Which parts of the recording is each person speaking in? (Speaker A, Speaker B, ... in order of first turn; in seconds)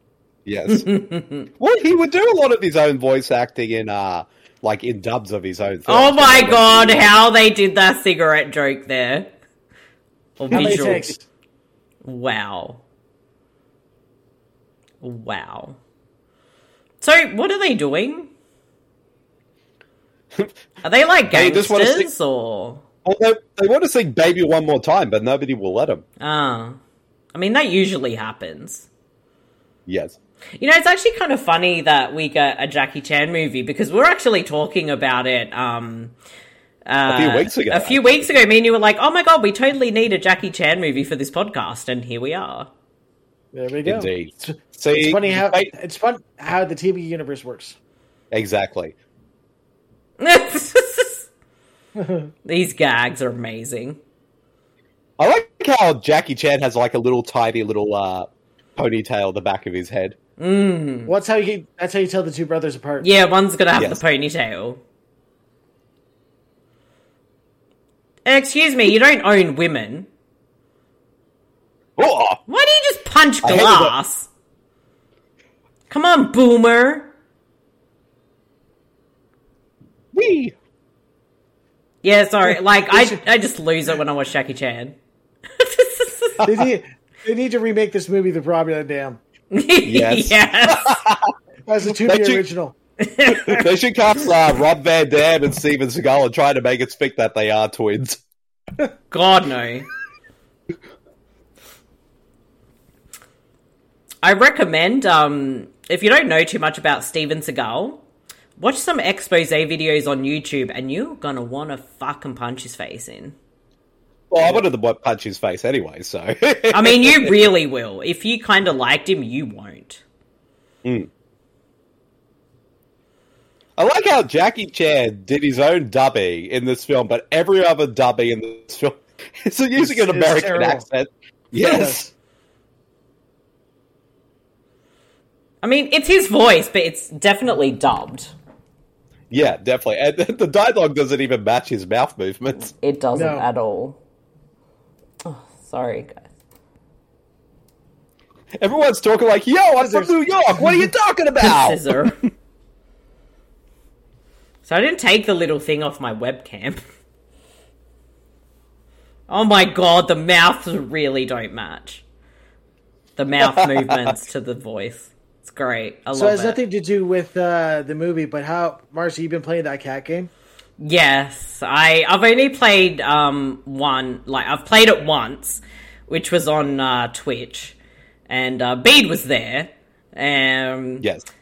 Speaker A: 0.5-0.9, 1.6-7.1, 10.5-11.0, 21.3-22.1, 23.0-26.0, 29.9-30.2, 37.1-38.3, 43.8-45.7, 48.3-48.9, 55.2-60.1, 63.8-64.0, 72.0-72.4, 73.4-73.9, 80.1-80.5, 89.8-91.3, 92.0-92.4, 93.3-98.2, 114.3-117.5, 120.8-121.1, 123.8-132.1, 139.3-142.7, 148.6-151.8, 163.6-163.9, 181.0-181.2
Speaker B: 0.7-1.5, 5.9-9.3, 10.4-11.1, 12.0-12.8, 15.0-15.8, 17.0-18.3, 20.8-22.8, 26.2-26.8, 27.3-28.9, 30.6-36.1, 36.9-42.7, 50.2-51.3, 52.5-54.0, 60.4-61.1, 63.0-64.8, 68.2-70.1, 72.5-74.3, 75.9-77.1, 82.0-84.9, 85.6-86.4, 89.5-91.0, 93.0-93.7, 99.1-99.9, 104.2-108.0, 108.6-113.3, 116.7-120.0, 135.6-138.3, 142.8-144.0, 145.2-146.2, 151.4-152.2, 154.6-156.8, 159.3-162.0, 163.2-166.6, 170.8-177.8, 178.3-181.1
Speaker C: 10.5-11.2, 43.5-47.8, 52.0-52.3, 61.1-63.1, 82.9-83.2, 86.4-89.2, 91.7-92.7, 129.8-130.8, 131.5-132.0, 143.1-143.4, 149.8-150.8, 166.1-170.3